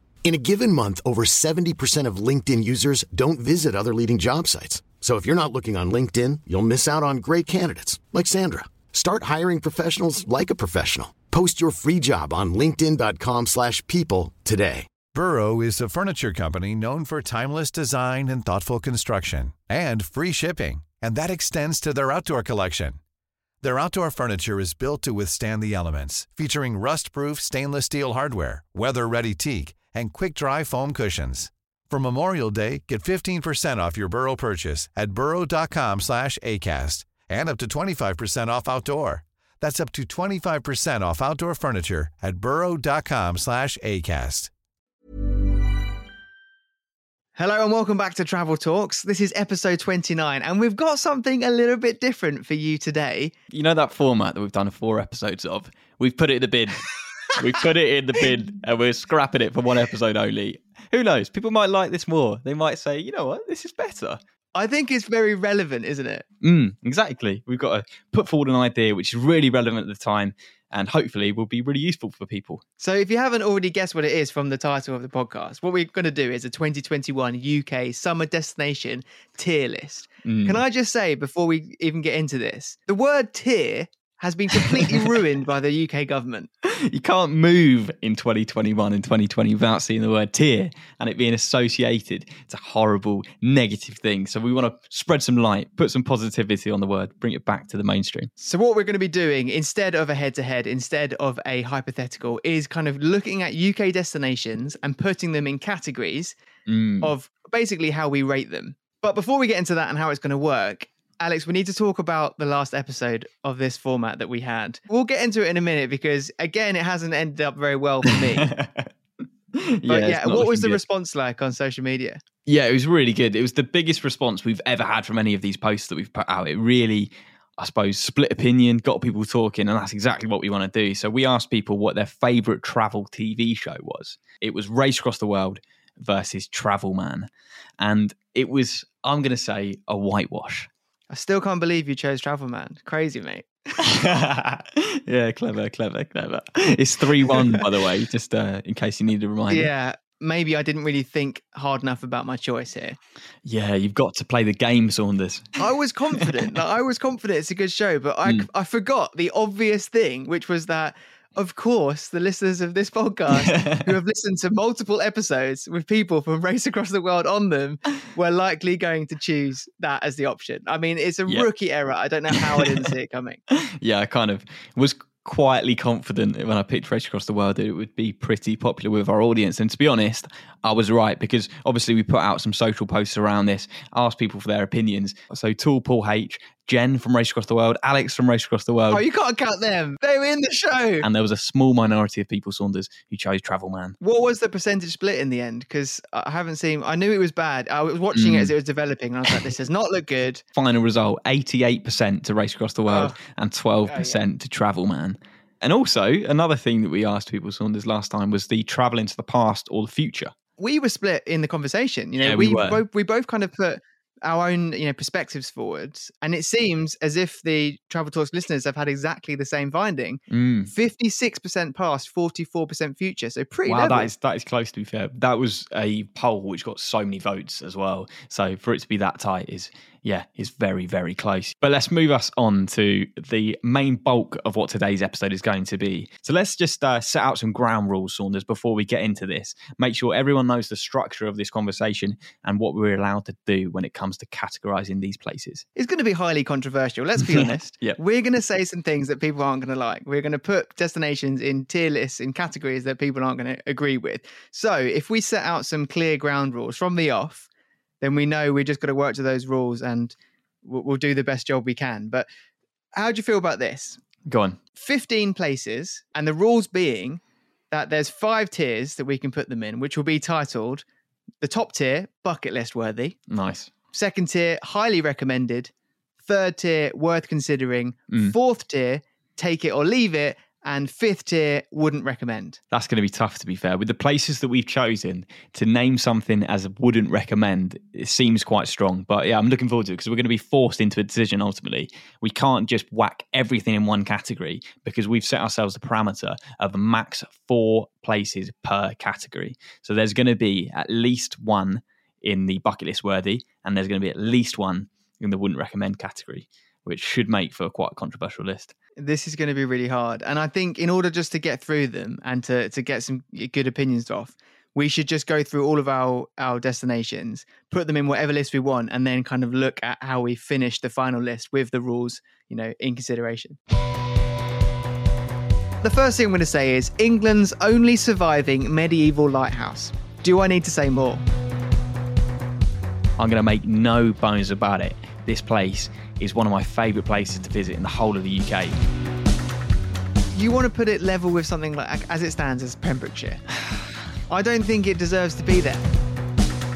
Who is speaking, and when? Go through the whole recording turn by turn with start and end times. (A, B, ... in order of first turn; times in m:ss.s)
0:00.2-0:14.9 A
0:15.1-0:23.0 B
0:23.6-0:44.5 B
0:47.4-0:53.3 C
0:53.5-1:04.2 D
1:04.5-1:06.2 C
1:06.4-1:12.6 D
1:12.8-1:26.5 C
1:20.2-1:20.6 D
1:24.7-1:25.1 D
1:26.6-1:38.3 D
1:38.4-1:46.4 C
1:46.7-1:47.1 D
1:47.0-1:58.5 C
1:58.1-1:58.9 D
1:59.5-2:00.8 D
1:59.9-2:02.2 C
2:02.4-2:20.7 D
2:21.1-2:23.8 C
2:23.8-2:29.7 D
2:27.3-2:27.7 C
2:29.5-2:33.0 C
2:33.4-2:35.5 D
2:35.6-2:53.4 C
2:43.3-2:43.9 D
2:52.3-2:52.9 D
2:53.5-3:09.0 D
3:08.9-3:11.1 C
3:11.0-3:14.0 D
3:14.0-3:20.4 C
3:18.1-3:18.5 D
3:20.6-3:30.3 D
3:22.9-3:23.2 C
3:23.8-3:24.2 C
3:30.6-3:44.1 C
3:32.2-3:32.8 D
3:40.3-3:40.7 D
3:43.6-4:05.6 D
4:05.8-4:17.5 C
4:07.2-4:08.0 D
4:18.0-4:22.3 C
4:22.9-4:24.0 C
4:24.2-4:24.6 D
4:24.8-4:30.8 C
4:31.4-4:33.2 C
4:33.3-4:33.7 D
4:33.9-4:42.6 C
4:42.7-5:08.7 D
5:09.0-5:23.6 C
5:25.8-5:31.2 C
5:33.2-5:38.7 D
5:40.3-5:43.4 C
5:44.3-5:45.8 C